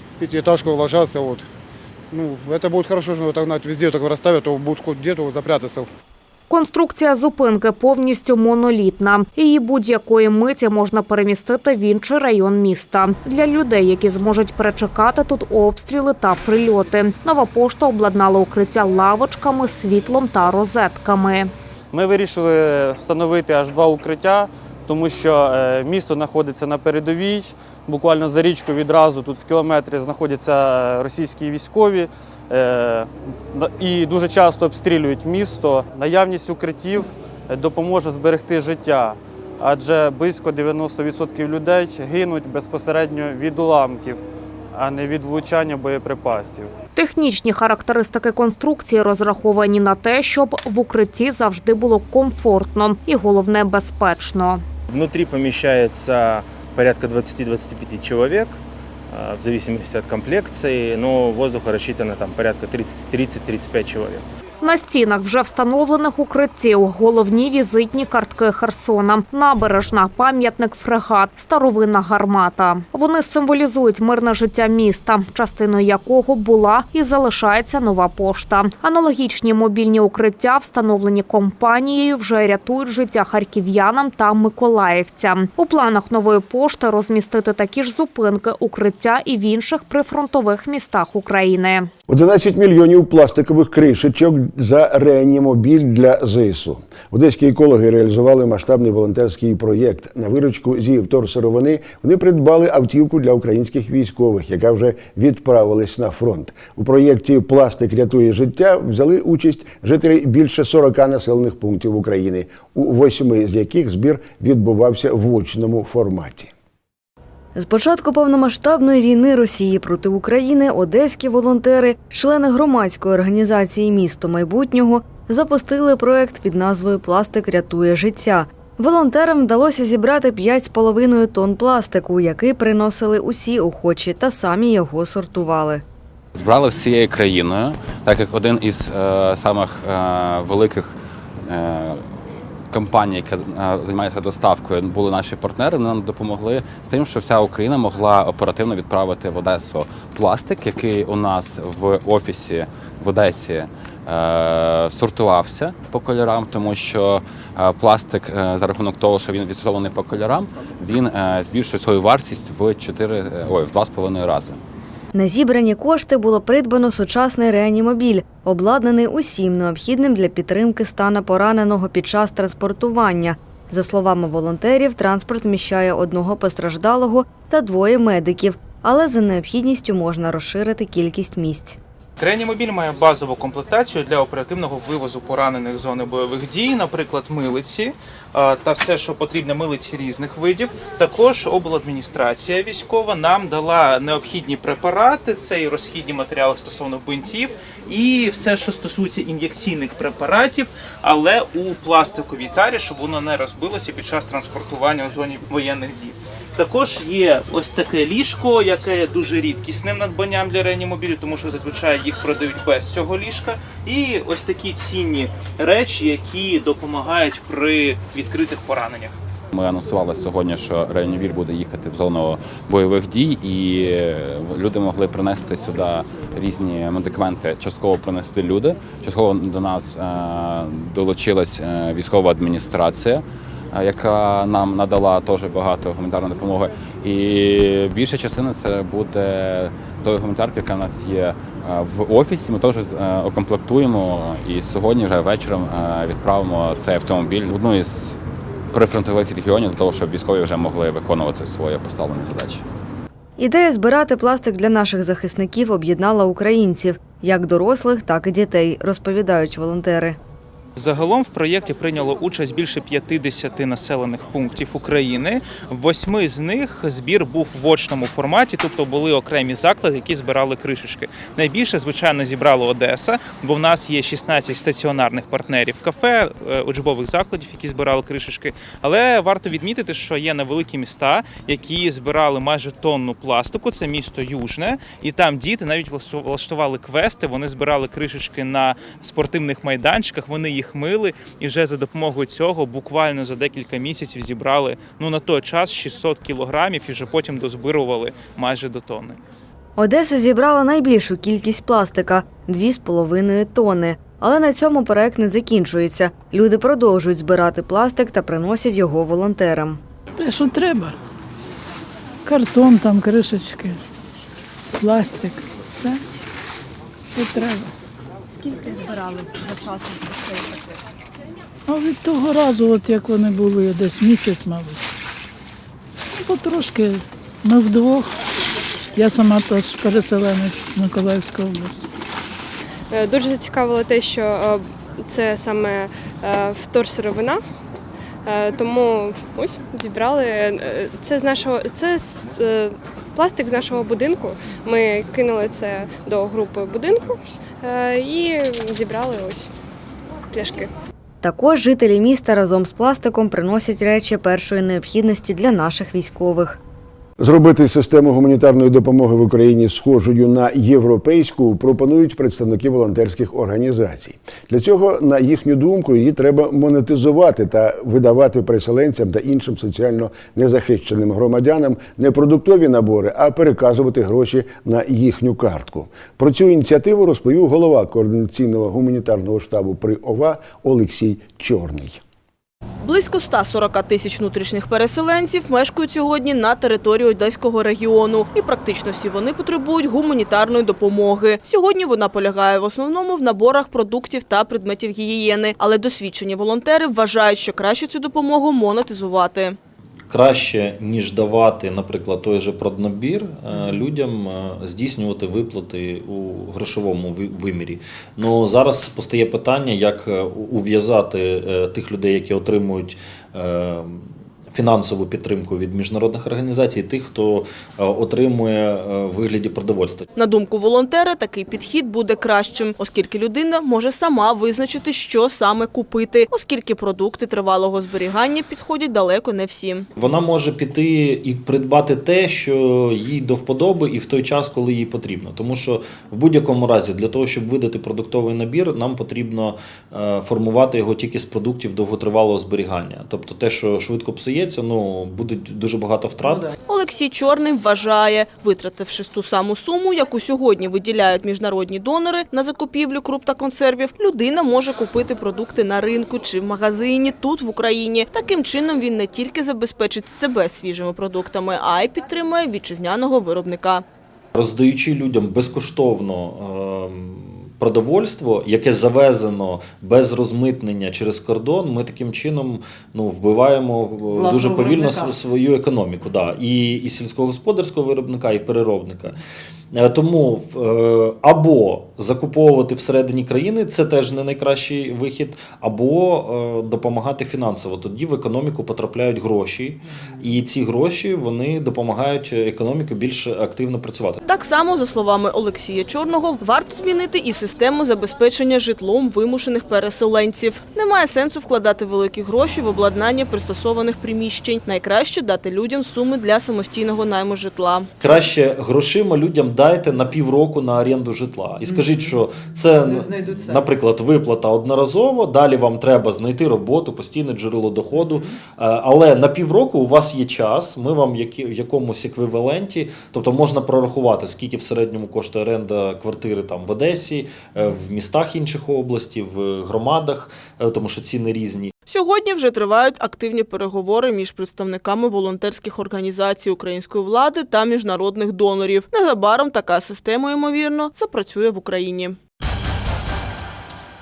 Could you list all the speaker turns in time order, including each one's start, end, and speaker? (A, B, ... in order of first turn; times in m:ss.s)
0:00.2-0:01.5 A
0:02.1-0:05.9 A
0:06.5-0:21.5 B
0:21.9-0:44.2 C
0:44.8-0:46.7 C
0:47.0-0:54.6 B
0:54.9-0:58.6 D
0:59.1-1:04.2 D
1:04.6-1:31.9 B
1:32.1-1:56.5 E
1:57.6-2:15.8 F
2:16.4-2:22.0 G
2:22.7-2:44.6 G
2:45.1-3:01.8 F
3:02.2-3:39.1 H
3:39.5-4:08.2 G
4:08.7-4:12.6 G
4:13.4-4:20.2 F
4:20.8-4:59.2 H
4:59.8-5:09.8 F
5:10.2-5:10.9 I
5:12.2-5:13.8 I
5:14.8-5:16.0 I
5:17.1-5:17.7 I
5:21.7-5:24.8 I
5:26.1-5:28.1 I
5:28.9-5:31.9 I
5:32.9-5:37.4 J
5:38.2-5:49.5 J
5:50.3-5:50.7 J
5:51.2-5:56.6 F
5:57.2-6:22.0 E
6:22.8-6:39.6 K
6:40.1-7:00.1 L
7:00.2-7:09.9 K
7:10.0-7:26.5 L
7:26.6-7:43.8 K
7:44.4-7:59.2 L
7:59.7-8:14.2 L
8:14.2-8:27.9 K
8:28.0-8:51.7 L
8:51.9-9:02.2 K